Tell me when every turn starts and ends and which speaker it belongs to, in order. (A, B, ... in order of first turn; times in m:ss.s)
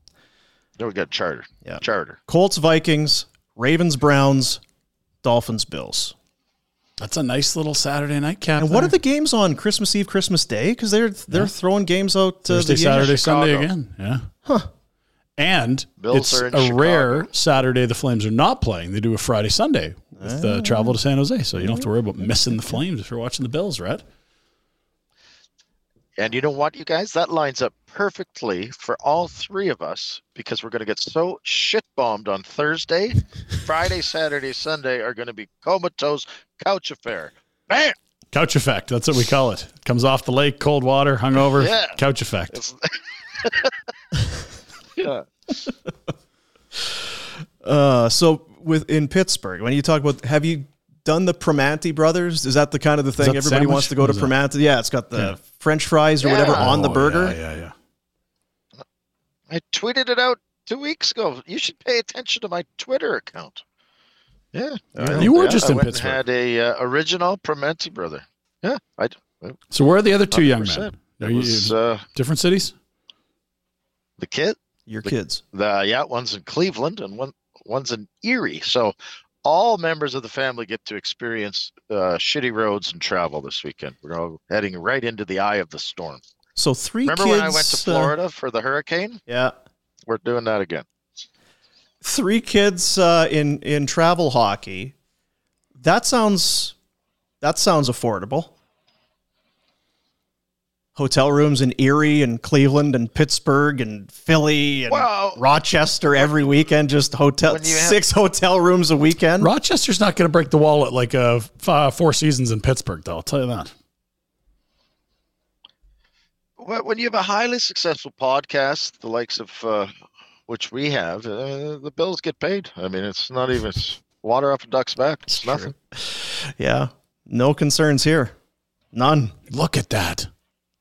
0:00.8-0:02.2 A
0:01.6-0:04.6 B
0:05.2-0:06.1 B
0:07.0-0:09.0 C
0:08.6-0:13.2 B
0:12.5-0:14.3 C
0:13.0-0:13.7 A
0:15.4-0:24.0 C
0:16.0-0:17.3 A
0:20.2-0:21.0 B
0:21.6-0:21.9 B
0:26.2-0:38.0 A
0:38.3-0:42.6 C
0:41.6-0:42.0 A
0:42.5-0:43.7 A
0:45.0-0:45.2 A
0:47.6-0:57.4 B
0:53.2-0:54.4 C
0:56.2-0:56.7 A
0:56.4-0:57.7 C
0:59.5-1:03.6 A
1:04.5-1:09.6 A
1:05.0-1:05.6 B
1:05.2-1:06.2 C
1:09.7-1:12.8 C
1:10.3-1:12.0 A
1:14.2-1:26.2 A
1:14.9-1:15.4 B
1:26.6-1:28.1 B
1:27.0-1:29.2 A
1:29.3-1:29.5 B
1:30.1-1:30.8 A
1:32.0-1:34.9 B
1:35.8-1:36.8 B
1:37.4-1:38.5 B
1:41.0-1:49.5 B
1:44.9-1:45.4 A
1:46.2-1:46.6 A
1:47.5-1:48.0 A
1:49.4-1:53.7 C
1:56.6-1:59.9 A
2:00.5-2:05.7 A
2:05.3-2:08.3 B
2:08.9-2:09.3 B
2:09.5-2:10.3 C